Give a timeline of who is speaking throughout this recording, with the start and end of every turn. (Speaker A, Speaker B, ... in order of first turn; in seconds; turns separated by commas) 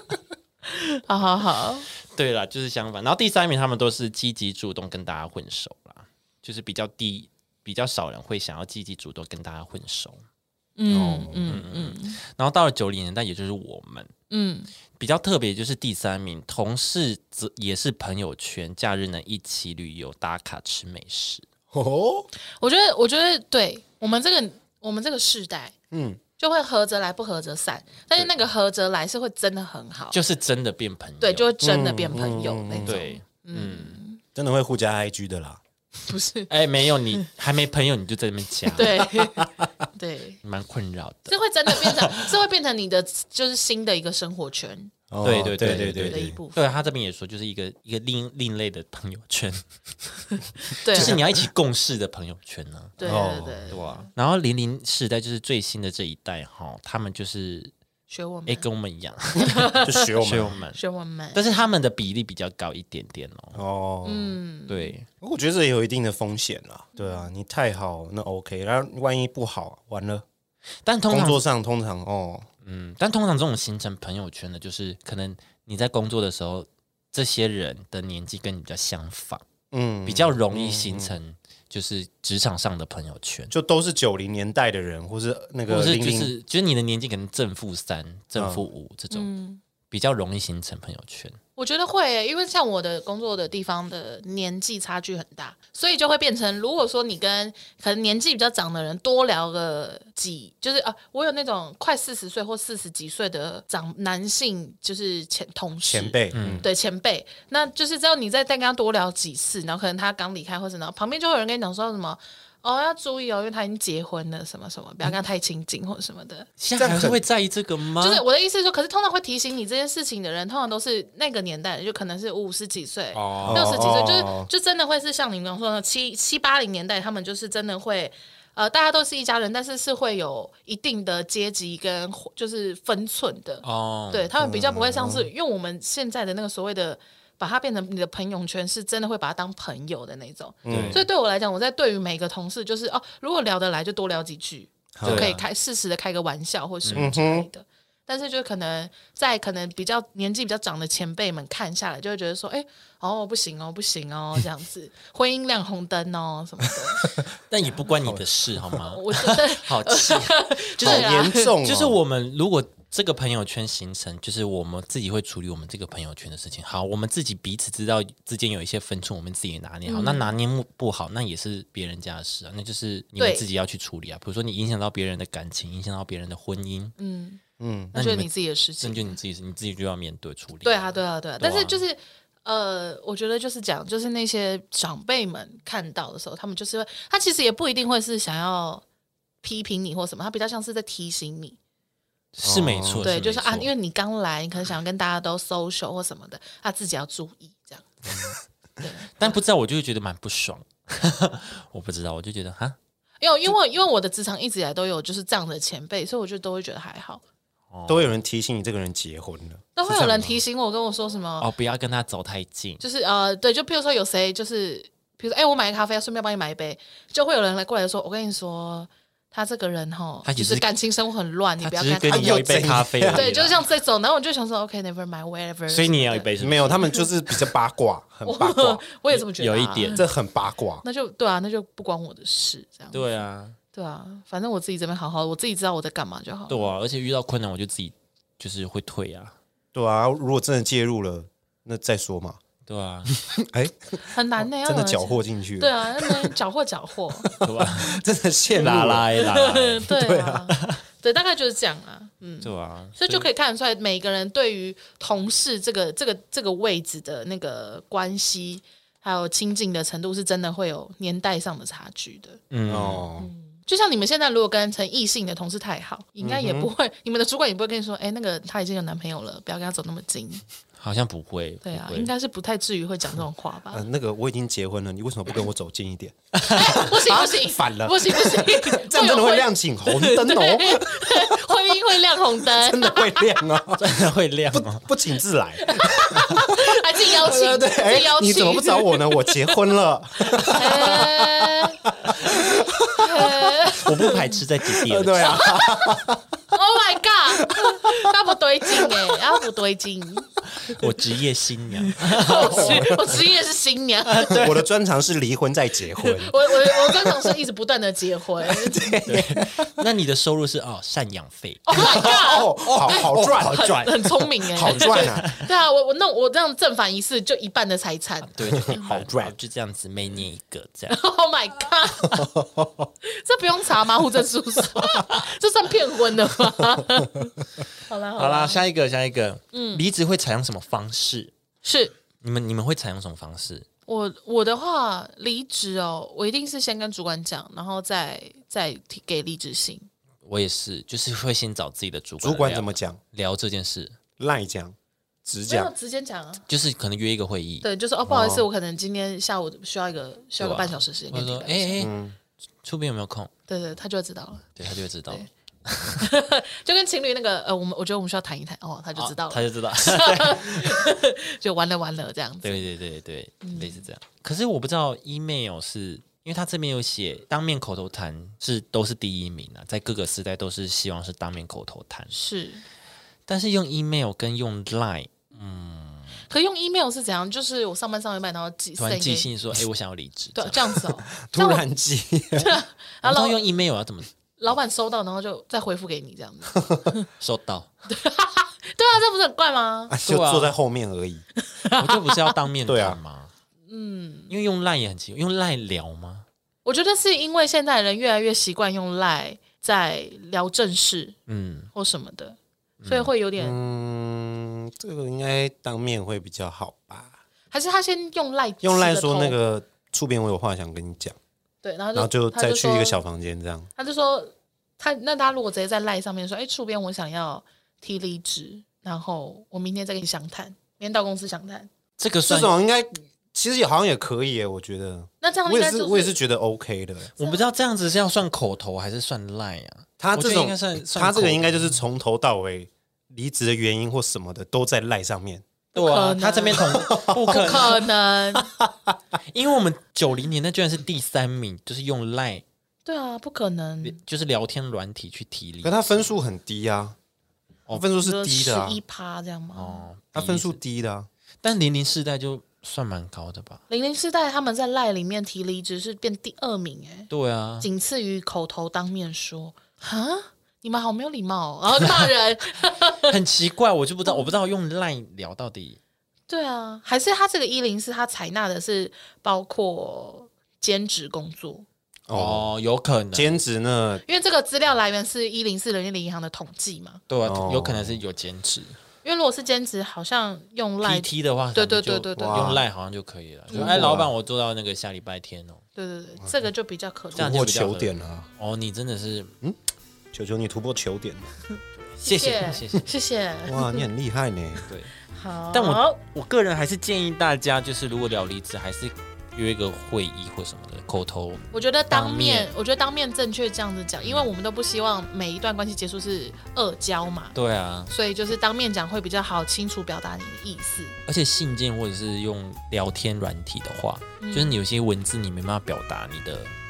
Speaker A: 0.7-1.9, Speaker B: 2.1-10.2, Speaker A: 10.8-12.2, Speaker C: 10.9-11.6, Speaker B: 11.5-14.1, Speaker A: 14.3-14.7, Speaker B: 15.0-21.4, Speaker C: 21.7-22.3, Speaker A: 22.6-25.7, Speaker C: 25.9-26.2, Speaker A: 26.4-30.2, Speaker B: 30.1-31.5, Speaker A: 31.2-34.2, Speaker C: 31.6-33.0, Speaker B: 32.9-34.0, Speaker C: 34.4-35.6, Speaker A: 36.1-36.5, Speaker B: 36.5-39.0, Speaker A: 38.7-40.4, Speaker C: 39.2-39.5, Speaker B: 40.4-42.1, Speaker A: 41.3-44.9, Speaker C: 45.1-46.4, Speaker B: 45.2-50.2, Speaker A: 46.1-46.8, Speaker A: 50.6-51.2, Speaker B: 50.9-53.0, Speaker C: 50.9-51.3, Speaker A: 53.0-54.1, Speaker C: 53.0-53.8, Speaker B: 53.7-57.7, Speaker A: 58.1-58.7, Speaker B: 58.5-60.8, Speaker A: 59.4-59.9, Speaker C: 59.8-60.6, Speaker A: 60.7-61.4, Speaker B: 61.3-63.6, Speaker C: 63.5-64.4, Speaker A: 64.0-64.9, Speaker B: 64.7-65.1, Speaker C: 65.2-70.2, Speaker A: 67.0-67.3, Speaker B: 70.8-71.4, Speaker C: 71.1-72.5, Speaker B: 72.6-79.4, Speaker C: 79.7-81.2, Speaker B: 80.1-83.5, Speaker C: 83.5-86.3, Speaker B: 85.7-89.3, Speaker C: 88.4-88.7, Speaker A: 89.1-89.6, Speaker B: 89.9-91.4, Speaker A: 91.6-116.5, Speaker C: 105.8-106.7, Speaker B: 106.3-106.7, Speaker B: 116.6-118.2, Speaker C: 116.8-117.2, Speaker A: 118.0-157.1, Speaker B: 123.1-123.9, Speaker C: 123.4-124.5, Speaker B: 133.6-134.3, Speaker C: 134.4-135.3, Speaker C: 140.7-141.0, Speaker B: 140.7-141.0, Speaker C: 145.0-145.3, Speaker B: 145.1-145.4, Speaker B: 146.8-147.1, Speaker C: 146.9-147.5, Speaker B: 157.5-176.9, Speaker C: 157.9-158.8, Speaker A: 158.9-161.6, Speaker C: 160.8-162.0, Speaker A: 169.9-170.3, Speaker A: 173.2-173.4, Speaker A: 177.0-177.4, Speaker C: 177.6-177.9, Speaker A: 177.9-179.2, Speaker B: 177.9-181.8, Speaker A: 180.6-188.8, Speaker A: 189.4-191.6, Speaker B: 192.3-193.7, Speaker C: 192.4-193.1, Speaker A: 193.0-198.0, Speaker A: 198.8-199.4, Speaker B: 199.2-202.8, Speaker A: 203.2-207.2, Speaker B: 207.7-208.2, Speaker C: 207.9-210.4, Speaker A: 209.8-211.5, Speaker B: 211.4-212.8, Speaker A: 212.8-227.1, Speaker B: 220.2-220.7, Speaker B: 221.6-223.6, Speaker C: 222.1-223.3, Speaker B: 225.7-226.9, Speaker C: 226.4-228.8, Speaker A: 228.2-230.1, Speaker B: 229.1-230.1, Speaker C: 229.9-230.8, Speaker A: 230.8-233.1, Speaker B: 232.9-233.6, Speaker A: 233.7-236.7, Speaker B: 236.5-239.4, Speaker C: 239.7-242.4, Speaker B: 242.7-243.1, Speaker C: 243.2-246.3, Speaker A: 244.0-247.8, Speaker C: 247.2-249.2, Speaker B: 247.4-248.0, Speaker B: 248.6-249.9, Speaker A: 249.2-262.4, Speaker C: 249.8-250.5, Speaker B: 250.5-250.8, Speaker B: 252.4-253.3, Speaker B: 262.5-263.1, Speaker C: 262.7-263.3, Speaker A: 263.2-270.4, Speaker C: 266.2-266.7, Speaker B: 270.8-272.1, Speaker A: 271.6-273.8, Speaker C: 273.7-281.4, Speaker A: 276.4-283.3, Speaker B: 276.4-276.8, Speaker C: 282.4-293.6, Speaker B: 283.8-284.9, Speaker A: 285.6-289.4, Speaker A: 290.3-294.4, Speaker B: 293.8-295.5, Speaker C: 294.8-296.3, Speaker A: 295.1-300.3, Speaker C: 297.4-298.2, Speaker C: 298.8-299.1, Speaker B: 300.6-303.0, Speaker A: 301.9-304.4, Speaker C: 302.4-303.1, Speaker B: 304.1-304.6, Speaker C: 304.3-307.4, Speaker A: 306.0-308.9, Speaker C: 308.4-309.7, Speaker B: 309.1-315.4, Speaker A: 311.7-318.9, Speaker C: 311.8-313.8, Speaker C: 314.5-315.3, Speaker B: 318.3-321.0, Speaker C: 318.5-319.3, Speaker A: 320.9-322.3, Speaker C: 322.1-322.9, Speaker A: 323.1-328.6, Speaker B: 328.2-331.3, Speaker A: 329.5-329.8, Speaker A: 331.6-332.0, Speaker B: 332.2-333.7, Speaker A: 333.9-339.9, Speaker B: 340.2-344.0, Speaker C: 342.2-343.0, Speaker C: 344.2-345.7, Speaker A: 345.5-346.4, Speaker B: 346.5-347.7, Speaker A: 347.6-351.9, Speaker C: 348.1-348.5, Speaker B: 350.4-351.9, Speaker C: 351.8-352.1, Speaker B: 352.6-353.3, Speaker A: 353.5-354.5, Speaker B: 354.6-356.1, Speaker A: 356.0-362.6, Speaker B: 358.9-360.9, Speaker B: 362.4-372.1, Speaker A: 363.4-363.8, Speaker A: 372.1-372.6, Speaker B: 373.3-376.2, Speaker A: 376.3-379.3, Speaker B: 378.8-380.8, Speaker A: 380.4-381.6, Speaker C: 381.1-382.5, Speaker A: 382.4-383.5, Speaker B: 383.0-384.1, Speaker A: 384.4-387.1, Speaker C: 386.6-386.8, Speaker B: 387.2-387.7, Speaker A: 387.9-389.9, Speaker C: 389.9-391.2, Speaker B: 390.1-390.5, Speaker A: 391.4-392.4, Speaker B: 391.8-393.3, Speaker C: 392.7-393.0, Speaker A: 393.7-394.3, Speaker B: 394.3-396.3, Speaker A: 396.6-401.1, Speaker B: 401.3-401.7, Speaker A: 401.7-403.6, Speaker B: 402.8-403.1, Speaker C: 403.4-407.2, Speaker A: 407.5-409.4, Speaker C: 408.6-411.2, Speaker A: 411.6-413.0, Speaker C: 411.9-413.7, Speaker A: 413.8-421.7, Speaker B: 422.0-422.5, Speaker C: 422.3-427.1, Speaker A: 425.2-426.2, Speaker B: 427.2-431.8, Speaker C: 430.0-435.4, Speaker B: 435.7-437.9, Speaker A: 435.7-438.4, Speaker C: 436.6-437.6, Speaker B: 439.3-442.4, Speaker A: 442.9-444.0, Speaker B: 443.8-446.1, Speaker C: 445.6-447.0, Speaker C: 447.7-448.8, Speaker A: 448.0-449.9, Speaker B: 449.5-450.6, Speaker C: 450.1-451.1, Speaker B: 451.4-453.6, Speaker A: 453.7-457.1, Speaker B: 457.1-457.7, Speaker A: 457.6-463.1, Speaker B: 463.1-465.8, Speaker A: 464.1-464.3, Speaker A: 466.3-471.7, Speaker C: 472.1-472.5, Speaker B: 472.1-473.4, Speaker C: 473.1-474.0, Speaker A: 474.1-477.0, Speaker B: 477.1-478.8, Speaker C: 477.2-478.0, Speaker A: 479.0-482.6, Speaker B: 480.8-485.6, Speaker C: 482.2-482.6, Speaker A: 483.5-484.0, Speaker C: 483.5-484.1, Speaker A: 485.8-487.4, Speaker C: 487.1-488.3, Speaker B: 487.1-489.3, Speaker C: 490.1-491.3, Speaker A: 492.0-493.9, Speaker B: 492.0-492.9, Speaker C: 493.5-494.7, Speaker A: 495.1-496.0, Speaker B: 495.5-502.5, Speaker A: 501.5-507.4, Speaker B: 504.0-504.3, Speaker B: 507.4-507.9, Speaker A: 507.9-511.0, Speaker B: 511.1-516.5, Speaker A: 514.2-514.6